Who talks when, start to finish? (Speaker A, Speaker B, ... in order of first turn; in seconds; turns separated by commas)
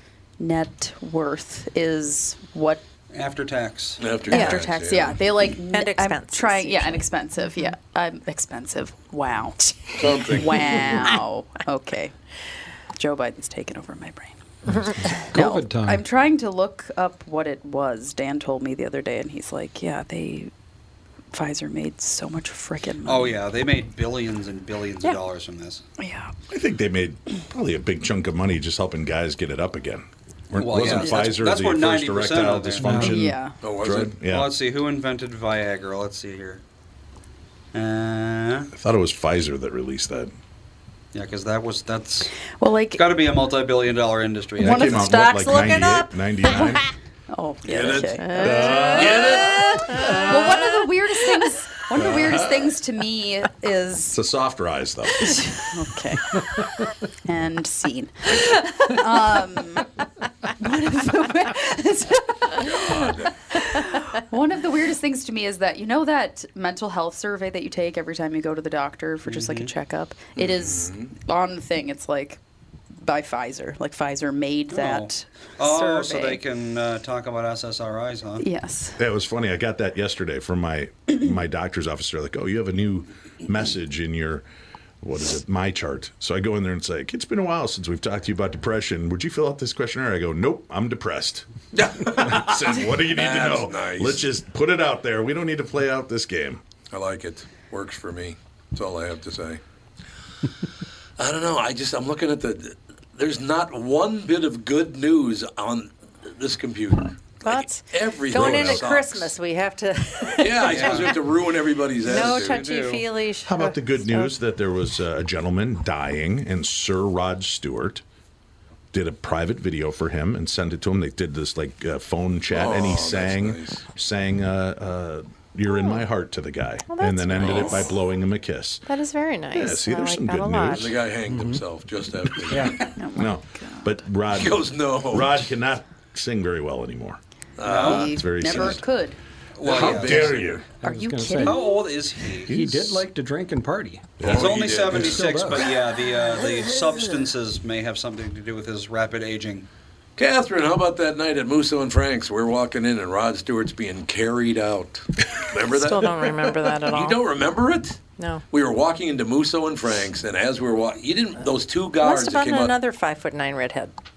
Speaker A: 0.4-2.8, Speaker B: 3.1-4.1, Speaker C: 4.0-5.2, Speaker A: 4.3-12.1, Speaker D: 4.3-4.6, Speaker D: 5.6-7.7, Speaker C: 10.0-10.9, Speaker A: 12.9-14.4, Speaker E: 14.7-16.0, Speaker A: 15.1-20.5, Speaker A: 21.3-23.4, Speaker B: 23.1-25.8, Speaker A: 26.0-26.3, Speaker F: 26.5-34.5, Speaker B: 30.5-33.2, Speaker A: 30.9-31.1, Speaker E: 32.8-33.2, Speaker A: 33.0-33.5, Speaker C: 33.6-34.1, Speaker B: 34.2-36.6, Speaker B: 37.7-38.7, Speaker F: 38.8-40.3, Speaker B: 41.1-42.3, Speaker A: 42.5-43.1, Speaker B: 43.0-45.1, Speaker F: 44.6-46.9, Speaker A: 44.6-46.1, Speaker A: 47.3-48.9, Speaker C: 47.6-49.9, Speaker D: 48.2-50.6, Speaker F: 48.4-49.5, Speaker A: 49.8-54.2, Speaker F: 52.0-52.7, Speaker F: 54.1-55.4, Speaker A: 55.2-56.4, Speaker A: 57.2-59.9, Speaker A: 60.6-63.1, Speaker C: 62.6-63.3, Speaker A: 63.7-72.4, Speaker B: 69.2-69.7, Speaker C: 70.3-71.1, Speaker A: 73.0-76.4, Speaker B: 74.7-78.5, Speaker A: 78.4-79.0, Speaker F: 79.0-84.4, Speaker F: 85.0-91.5, Speaker C: 91.7-94.3, Speaker F: 92.0-96.6, Speaker C: 96.9-99.6, Speaker C: 101.2-109.3, Speaker D: 107.4-111.2, Speaker F: 108.3-108.8, Speaker C: 110.4-112.7, Speaker B: 110.7-111.2, Speaker D: 112.0-114.3, Speaker B: 112.0-113.0, Speaker F: 113.5-118.0, Speaker F: 118.9-128.9, Speaker C: 122.5-123.8, Speaker D: 125.7-126.0, Speaker D: 126.9-127.9, Speaker C: 127.4-127.9, Speaker D: 128.9-130.9, Speaker F: 129.5-131.0, Speaker C: 130.7-132.9, Speaker E: 131.3-131.6, Speaker E: 132.5-132.8, Speaker F: 132.6-137.2, Speaker A: 132.9-134.0, Speaker C: 134.3-135.5, Speaker C: 137.6-138.8, Speaker B: 137.7-138.1, Speaker A: 137.7-139.2, Speaker F: 137.8-138.8, Speaker B: 139.6-140.4, Speaker F: 139.6-140.7, Speaker C: 139.7-140.6, Speaker E: 139.8-141.6, Speaker A: 140.8-141.8, Speaker B: 141.4-142.6, Speaker E: 142.5-144.3, Speaker F: 142.5-143.0, Speaker F: 144.2-144.5, Speaker C: 144.2-145.5, Speaker B: 144.2-149.7, Speaker E: 144.8-145.7, Speaker C: 150.2-158.0, Speaker D: 155.7-157.2, Speaker D: 158.2-158.4, Speaker C: 158.5-162.8, Speaker D: 162.0-163.9